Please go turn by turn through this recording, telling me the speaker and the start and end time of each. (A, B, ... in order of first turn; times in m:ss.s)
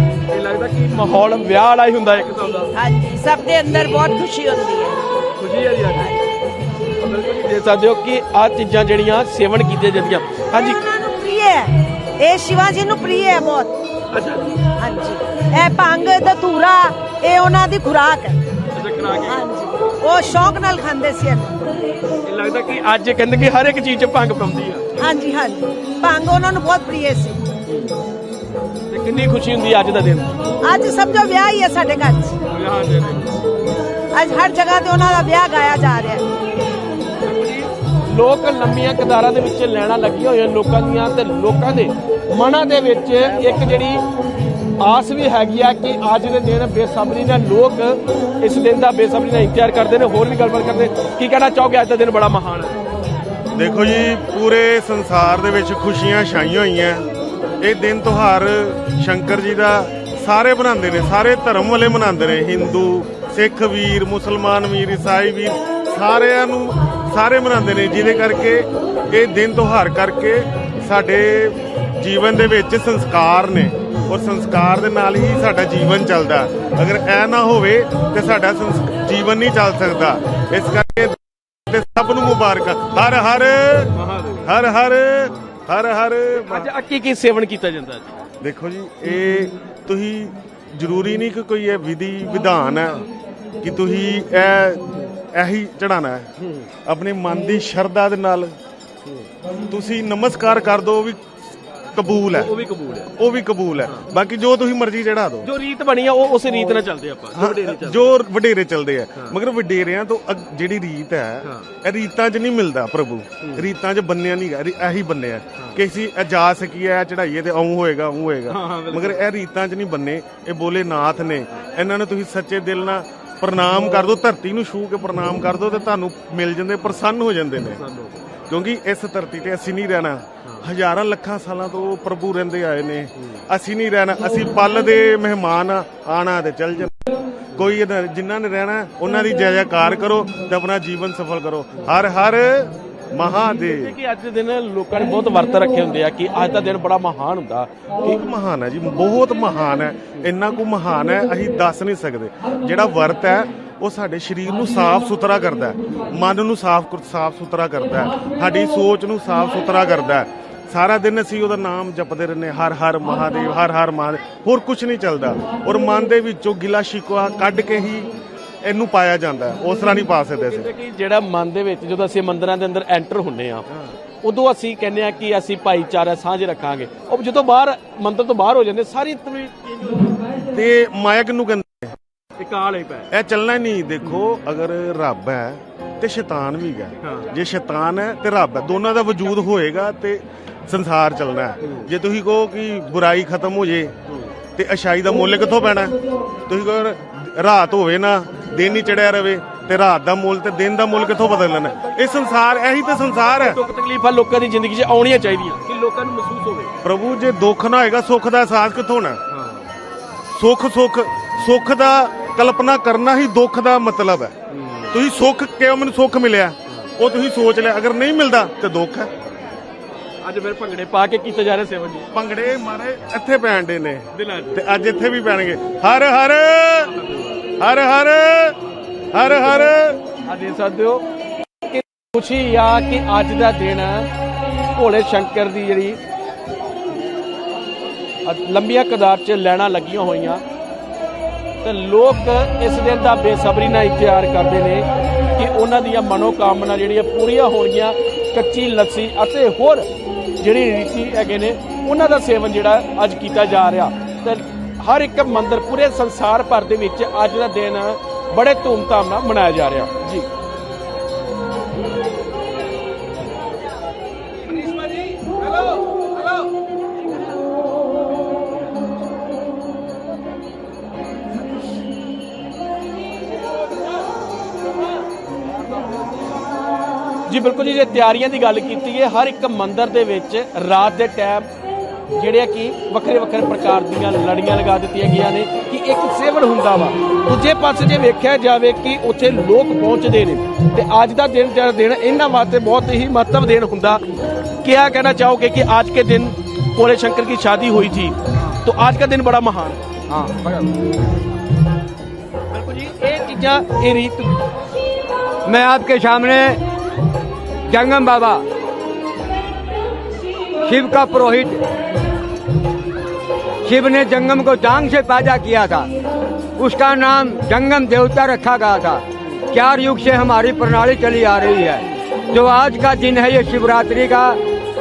0:00.3-0:02.7 A
0:02.7-0:05.0 B
0:05.4-0:06.1 A
0:05.9-0:06.2 B
0:07.0-0:10.8 A
0:10.6-0:13.8 C
0:14.1-0:14.6 A
0:14.8-0:18.4 C
0:18.7-0:19.5 A
0:19.3-0:21.6 C
0:22.2-0:25.0 A
0:25.0-0:27.4 C
0:27.7-0:28.0 A
0:28.9-0:30.4 A
0:30.6-0:32.4 C
0:32.5-0:33.4 A
0:34.1-0:36.3 C
0:37.2-0:44.0 A
0:44.8-0:52.8 A
0:53.6-0:57.1 D
0:57.6-1:23.9 D
1:23.9-1:24.5 A
1:24.5-1:26.7 D
1:26.3-1:28.2 A
1:28.4-1:33.1 D
1:33.6-1:36.3 D
1:36.4-1:36.7 A
1:36.8-1:38.6 D
1:39.7-1:41.2 D
1:41.9-1:42.5 D
1:42.3-1:43.2 A
1:43.2-1:45.5 D
1:45.4-1:48.2 A
1:47.3-2:07.8 D
1:51.4-1:51.7 A
1:53.4-1:53.7 A
1:55.6-1:55.8 A
1:58.5-1:59.3 A
2:07.7-2:08.2 A
2:08.5-2:23.9 D
2:23.7-2:27.7 A
2:28.0-2:48.1 D
2:48.6-2:50.7 D
2:50.5-3:00.2 A
3:00.4-3:02.0 D
3:02.4-3:03.1 A
3:03.1-3:13.9 D
3:07.0-3:07.3 A
3:11.6-3:11.9 A
3:14.6-3:16.0 D
3:16.5-3:23.6 D
3:23.4-3:26.7 A
3:26.8-3:29.2 D
3:29.3-3:29.6 A
3:30.3-3:34.3 D
3:34.5-3:35.0 A
3:34.9-3:39.1 D
3:36.7-3:36.9 A
3:40.2-3:42.1 A
3:42.1-3:46.9 D
3:44.1-3:44.6 A
3:46.8-3:47.5 A
3:47.6-3:48.6 D
3:49.1-3:50.0 D
3:50.2-3:51.1 A
3:51.7-3:54.1 A
3:54.8-3:56.0 A
3:58.2-4:00.4 A
4:01.6-4:20.3 A
4:37.3-4:41.5 A
4:42.1-4:54.0 A
4:54.6-4:59.8 A
5:00.1-5:00.6 E
5:02.5-5:04.4 A
5:05.4-5:06.6 E
5:07.7-5:08.4 E
5:10.6-5:11.6 E
5:13.6-5:15.9 E
5:16.6-5:24.4 E